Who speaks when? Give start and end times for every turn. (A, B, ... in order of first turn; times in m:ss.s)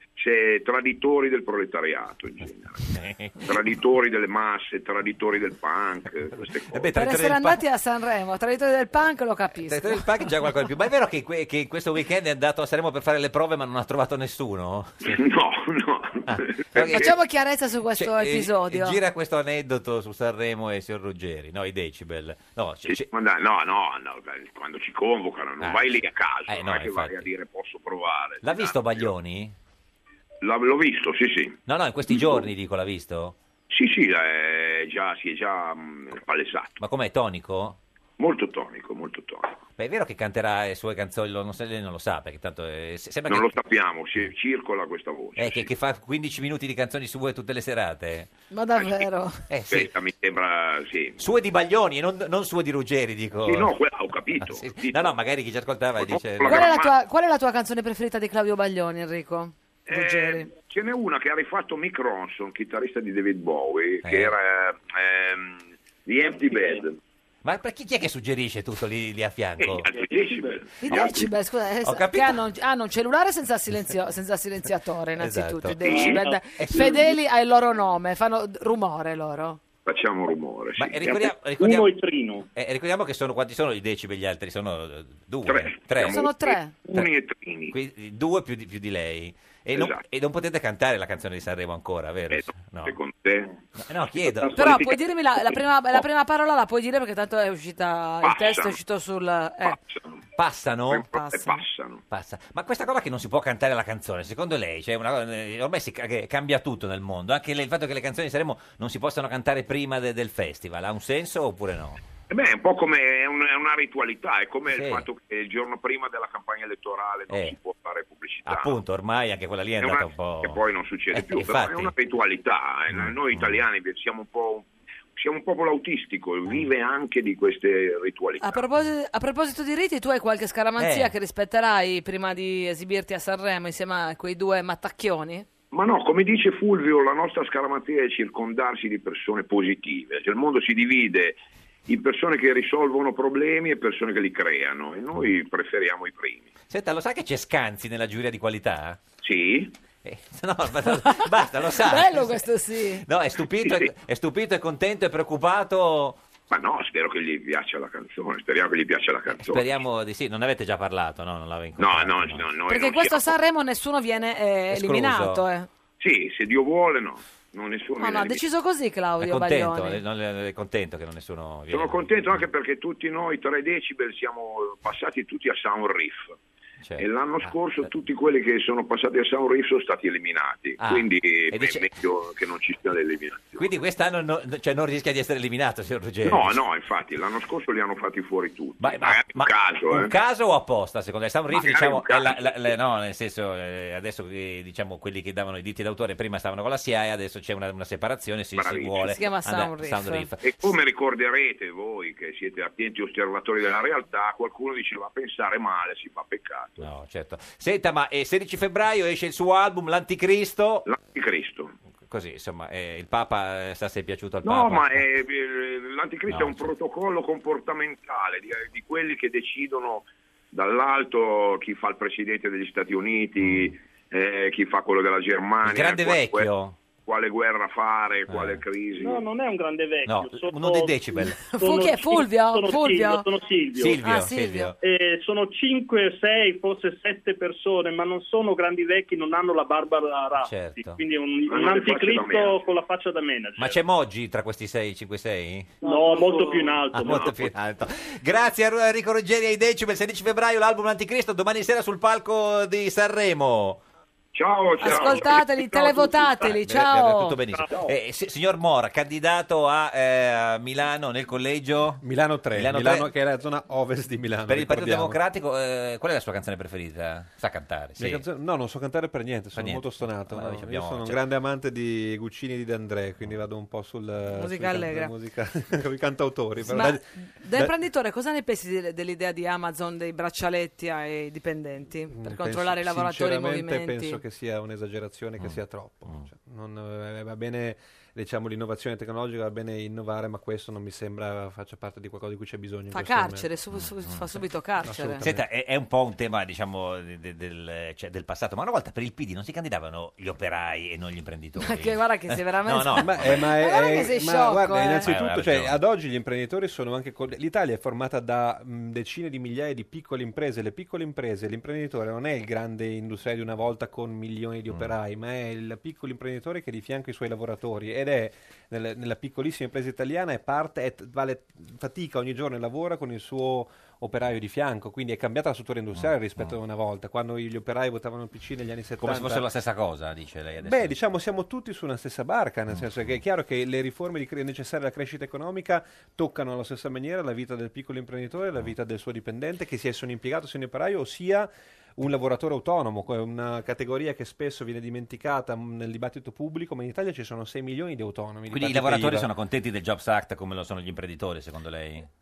0:00.2-0:06.9 A
0:02.9-0:03.5 B
0:06.7-0:07.6 B
0:06.9-0:10.0 C
0:09.7-0:15.2 B
0:15.0-0:17.1 A
0:16.3-0:17.1 B
0:16.9-0:19.0 C
0:18.0-0:23.1 B
0:22.8-0:29.1 A
0:25.6-0:27.3 B
0:28.4-0:29.5 B
0:30.4-0:32.5 A
0:31.7-0:33.4 B
0:33.7-0:36.8 A
0:36.8-0:37.8 B
0:38.2-0:39.6 A
0:39.8-0:43.5 B
0:43.3-0:45.7 A
0:45.4-0:48.3 B
0:48.5-0:49.4 C
0:49.5-0:49.9 B
0:49.7-0:51.2 A
0:51.2-0:53.7 B
0:53.4-0:55.2 A
0:54.4-0:56.7 B
0:56.0-0:56.9 A
0:56.4-1:00.5 C
0:59.9-1:07.0 A
1:04.0-1:04.3 B
1:07.4-1:09.9 B
1:09.6-1:11.3 A
1:10.8-1:19.6 C
1:11.8-1:12.4 B
1:15.2-1:17.0 B
1:15.8-1:16.2 A
1:19.8-1:21.2 A
1:20.8-1:21.9 B
1:21.1-1:22.5 D
1:22.5-1:26.2 B
1:25.4-1:27.8 A
1:26.0-1:26.7 C
1:27.7-1:33.0 B
1:29.7-1:30.0 A
1:32.3-1:33.6 A
1:33.8-1:34.8 B
1:34.3-1:34.9 A
1:34.5-1:39.8 C
1:38.2-1:38.8 A
1:39.6-1:40.2 A
1:40.4-1:41.1 B
1:40.9-1:42.0 A
1:41.1-1:41.6 C
1:42.1-1:52.0 B
1:52.3-1:58.8 A
1:54.7-1:55.0 B
1:57.3-1:57.6 B
1:58.5-2:00.6 B
1:59.8-2:08.6 A
2:01.1-2:01.9 B
2:02.9-2:03.6 B
2:08.4-2:15.4 C
2:10.8-2:11.1 B
2:15.7-2:21.4 A
2:21.9-2:26.5 A
2:26.7-2:29.0 B
2:29.2-2:29.8 A
2:30.0-2:32.4 B
2:31.8-2:33.0 C
2:33.0-2:36.2 B
2:33.6-2:33.9 A
2:36.5-2:39.7 A
2:39.4-2:42.4 B
2:41.8-2:43.4 A
2:42.7-2:45.7 C
2:44.7-2:45.4 B
2:46.0-2:48.4 A
2:48.0-2:50.0 C
2:49.2-2:52.4 B
2:51.7-2:56.3 A
2:56.8-2:57.9 B
2:57.0-3:03.7 A
3:00.8-3:01.9 B
3:03.6-3:06.6 B
3:06.2-3:10.1 A
3:08.8-3:20.7 B
3:11.5-3:12.8 A
3:18.5-3:19.2 A
3:19.0-3:20.3 C
3:20.4-3:26.9 A
3:26.8-3:30.8 B
3:30.8-3:31.7 A
3:32.1-3:35.0 B
3:34.4-3:46.5 A
3:36.3-3:36.7 B
3:43.4-3:43.7 B
3:45.6-3:46.8 B
3:47.0-3:49.2 A
3:48.3-3:48.6 B
3:49.0-3:54.0 D
3:50.0-3:51.4 B
3:51.5-3:53.2 C
3:53.8-3:54.8 B
3:54.0-3:54.7 C
3:54.8-4:03.8 D
4:00.4-4:01.0 B
4:01.5-4:02.6 A
4:03.6-4:05.8 B
4:05.8-4:07.4 D
4:06.9-4:13.8 B
4:14.3-4:16.3 A
4:14.8-4:17.4 C
4:16.4-4:22.0 B
4:22.0-4:25.2 E
4:22.5-4:23.1 B
4:24.5-4:28.2 B
4:28.0-4:37.7 E
4:29.6-4:31.2 B
4:34.3-4:35.1 C
4:36.7-4:44.2 C
4:42.1-4:53.5 E
4:45.4-4:46.2 B
4:52.9-4:55.2 C
4:53.7-4:54.2 B
4:54.8-4:55.4 E
4:55.2-5:03.5 B
5:01.6-5:05.1 C
5:03.0-5:29.4 E
5:05.0-5:05.8 B
5:29.0-5:30.9 B
5:30.6-5:49.3 E
5:48.5-5:52.1 B